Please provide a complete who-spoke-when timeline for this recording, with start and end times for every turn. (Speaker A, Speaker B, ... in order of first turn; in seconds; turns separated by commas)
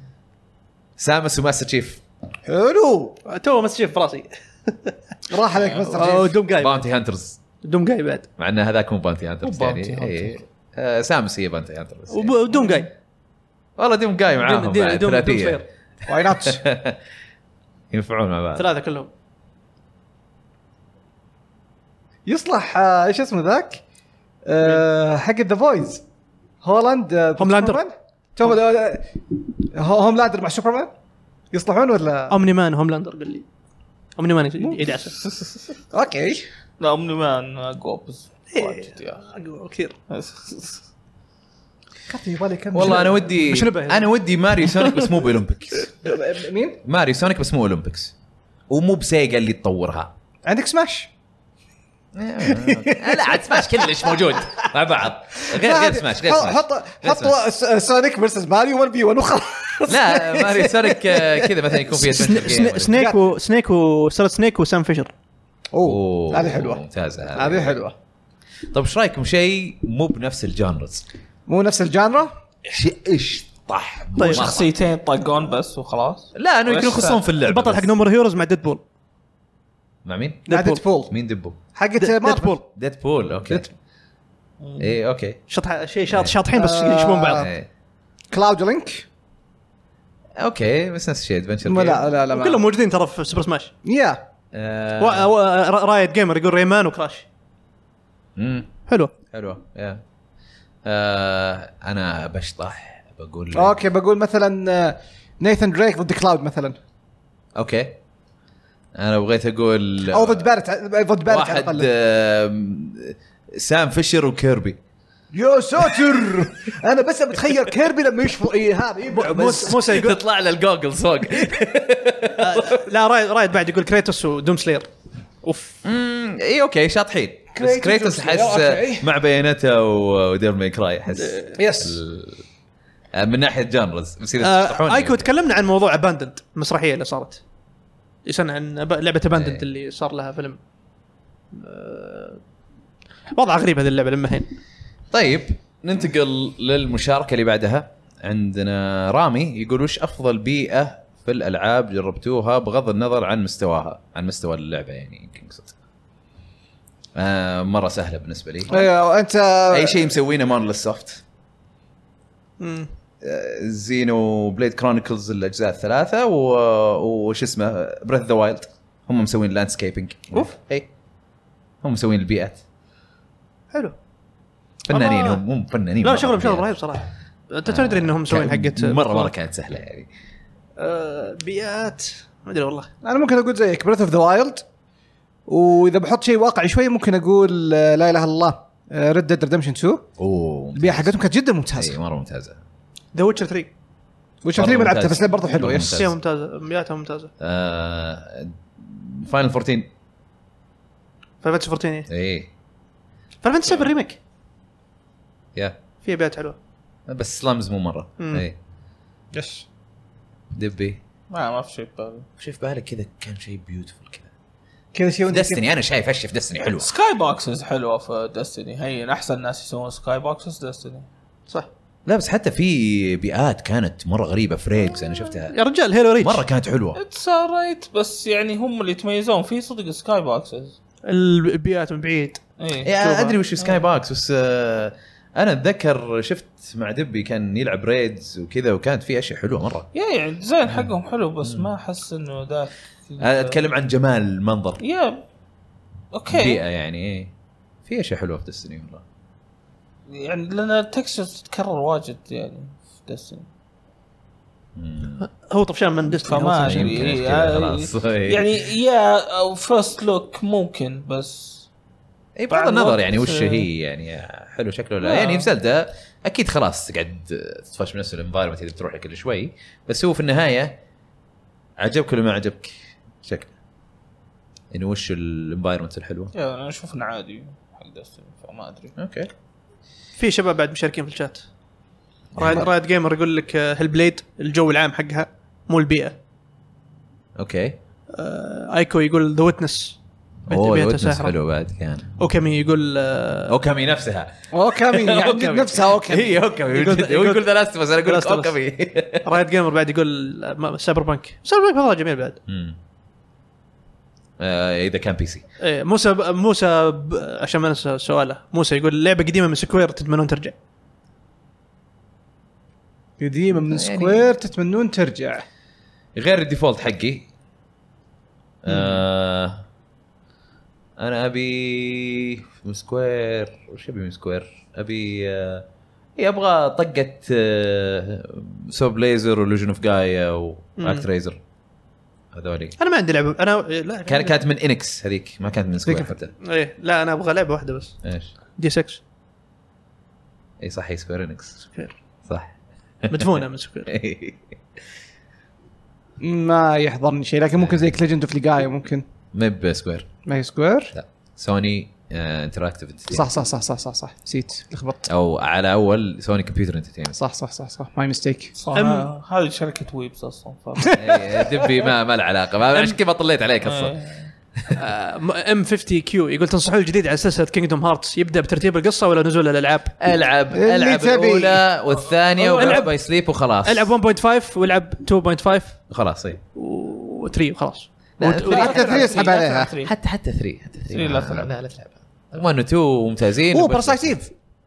Speaker A: 1.0-2.0, Speaker B: 2.5-3.2, Speaker C: 3.2-4.9, Speaker B: 5.3-6.4, Speaker D: 5.6-5.9, Speaker C: 5.9-6.8, Speaker A: 6.6-7.4, Speaker C: 7.6-8.3, Speaker A: 8.4-12.3, Speaker D: 9.4-10.4, Speaker C: 12.1-12.9, Speaker A: 13.8-15.6, Speaker C: 14.4-15.6, Speaker B: 16.1-16.6, Speaker A: 16.3-17.0, Speaker A: 17.9-18.6, Speaker C: 18.6-19.1, Speaker B: 22.2-23.8, Speaker B: 24.4-26.0, Speaker B: 26.6-30.9, Speaker C: 27.4-27.8, Speaker B: 31.5-32.4, Speaker C: 32.3-33.4, Speaker C: 34.2-35.1, Speaker D: 35.2-35.6, Speaker B: 35.9-36.4, Speaker D: 36.8-39.2, Speaker C: 38.5-39.9, Speaker D: 40.1-40.8, Speaker B: 42.1-43.3, Speaker A: 42.7-46.1, Speaker C: 42.9-44.1, Speaker B: 46.0-46.8, Speaker A: 46.8-48.1, Speaker A: 48.7-50.1, Speaker B: 50.4-51.1, Speaker A: 52.1-57.4, Speaker B: 52.4-54.4, Speaker B: 55.5-63.2, Speaker A: 59.9-63.0, Speaker C: 62.0-65.1, Speaker B: 65.7-66.8, Speaker A: 65.8-67.8, Speaker B: 67.3-67.9, Speaker A: 68.7-71.0, Speaker B: 71.5-72.3, Speaker A: 72.7-74.7, Speaker C: 74.2-74.5, Speaker D: 74.2-77.2, Speaker A: 76.3-77.9, Speaker C: 77.4-78.8, Speaker A: 80.0-80.5, Speaker C: 80.5-80.8, Speaker B: 80.5-81.1, Speaker A: 81.1-81.6, Speaker B: 81.7-82.6, Speaker C: 82.0-82.6, Speaker A: 82.7-83.7, Speaker D: 84.6-84.9, Speaker A: 84.8-85.4, Speaker C: 85.5-87.5, Speaker A: 86.1-86.3, Speaker B: 86.5-87.5, Speaker A: 87.3-87.7, Speaker B: 88.3-89.0, Speaker A: 90.4-92.0, Speaker B: 91.6-92.6, Speaker C: 92.3-93.7, Speaker B: 93.8-94.2, Speaker A: 94.5-95.3, Speaker C: 95.0-97.2, Speaker A: 98.3-98.7, Speaker A: 99.3-100.0, Speaker A: 100.8-103.8, Speaker B: 103.5-106.8, Speaker A: 107.5-108.0, Speaker A: 108.9-110.5, Speaker B: 110.1-111.9, Speaker A: 111.2-114.8, Speaker B: 115.3-119.9, Speaker C: 119.1-120.2, Speaker A: 119.8-122.8, Speaker C: 122.4-124.9, Speaker C: 125.4-125.8, Speaker A: 125.8-132.4, Speaker B: 127.5-129.1, Speaker C: 131.2-131.5, Speaker B: 131.6-132.0, Speaker A: 133.1-135.2, Speaker C: 134.4-137.4, Speaker C: 138.2-140.6, Speaker A: 139.3-139.6, Speaker C: 141.5-142.4, Speaker C: 143.3-144.5, Speaker A: 145.1-155.7, Speaker A: 157.2-158.8, Speaker B: 158.7-160.1, Speaker A: 159.7-161.2, Speaker C: 162.6-162.9, Speaker A: 163.2-170.9, Speaker A: 171.8-172.6, Speaker A: 174.9-176.7, Speaker C: 174.9-175.4, Speaker C: 176.0-179.3, Speaker A: 177.7-180.1, Speaker C: 180.8-182.9, Speaker B: 183.0-184.6, Speaker B: 185.5-190.1, Speaker A: 190.2-191.1, Speaker B: 190.7-191.9, Speaker A: 191.8-192.6, Speaker C: 193.1-193.7, Speaker B: 194.4-196.1, Speaker A: 194.5-196.1, Speaker C: 195.8-197.3, Speaker A: 197.4-199.9, Speaker C: 201.4-202.1, Speaker A: 202.1-202.5, Speaker C: 203.4-204.2, Speaker C: 206.0-206.6, Speaker A: 207.1-208.6, Speaker C: 208.2-208.4, Speaker B: 209.3-209.7, Speaker A: 210.5-211.0, Speaker D: 211.3-212.3, Speaker A: 212.4-214.3, Speaker B: 214.9-215.6, Speaker A: 215.3-216.9, Speaker D: 216.6-221.1, Speaker A: 222.1-225.5, Speaker C: 225.5-226.4, Speaker A: 226.2-227.0, Speaker D: 226.9-230.8, Speaker C: 231.1-232.4, Speaker D: 232.6-233.1, Speaker A: 232.8-239.9, Speaker C: 233.0-233.3, Speaker D: 239.9-243.6, Speaker A: 240.7-240.9, Speaker A: 241.4-241.7, Speaker A: 243.2-244.8, Speaker D: 244.8-245.2, Speaker D: 246.1-246.6, Speaker A: 246.3-247.3, Speaker A: 247.8-249.0, Speaker D: 250.1-253.5, Speaker A: 254.8-255.2, Speaker C: 255.2-257.0, Speaker D: 256.2-261.7, Speaker A: 256.6-258.4, Speaker A: 262.4-270.8, Speaker D: 262.5-263.7, Speaker D: 265.0-265.5, Speaker A: 271.8-273.5, Speaker A: 274.7-276.3, Speaker D: 276.3-278.9, Speaker A: 279.0-279.3, Speaker C: 280.2-281.4, Speaker A: 282.3-282.7, Speaker C: 282.4-286.1, Speaker A: 287.4-287.8, Speaker C: 288.1-290.0, Speaker C: 290.5-291.3, Speaker A: 290.5-292.1, Speaker C: 292.2-293.5, Speaker A: 293.5-299.3, Speaker B: 294.5-296.4, Speaker C: 296.7-297.5, Speaker C: 298.0-298.5, Speaker C: 299.2-302.4, Speaker A: 302.5-302.8, Speaker A: 304.4-305.4, Speaker C: 305.6-310.5, Speaker B: 313.2-315.4, Speaker A: 313.6-314.3, Speaker A: 316.1-317.3, Speaker A: 318.6-319.6, Speaker A: 321.0-325.6, Speaker A: 326.2-331.4, Speaker C: 330.8-331.1, Speaker A: 332.3-332.8, Speaker C: 332.8-334.4, Speaker A: 334.1-336.3, Speaker B: 335.8-336.1, Speaker C: 336.4-338.0, Speaker A: 338.0-338.3, Speaker C: 338.6-339.0, Speaker A: 340.6-341.6, Speaker A: 342.3-344.5, Speaker C: 343.1-343.9, Speaker B: 346.2-349.1, Speaker A: 349.3-350.1, Speaker B: 350.2-350.9, Speaker A: 350.9-353.3, Speaker B: 353.1-355.1, Speaker A: 355.1-357.2, Speaker B: 357.1-358.5, Speaker D: 358.6-361.4, Speaker C: 358.7-359.1, Speaker A: 360.9-363.9, Speaker D: 363.6-364.3, Speaker C: 364.8-369.9, Speaker A: 370.0-373.9, Speaker B: 370.5-371.6, Speaker D: 372.1-372.9, Speaker C: 372.5-372.9, Speaker C: 373.6-375.8, Speaker A: 375.9-376.4, Speaker C: 376.5-379.1, Speaker A: 378.2-378.8, Speaker D: 378.4-379.9, Speaker B: 378.5-379.7, Speaker A: 379.8-384.2, Speaker D: 380.9-381.5, Speaker B: 383.5-384.2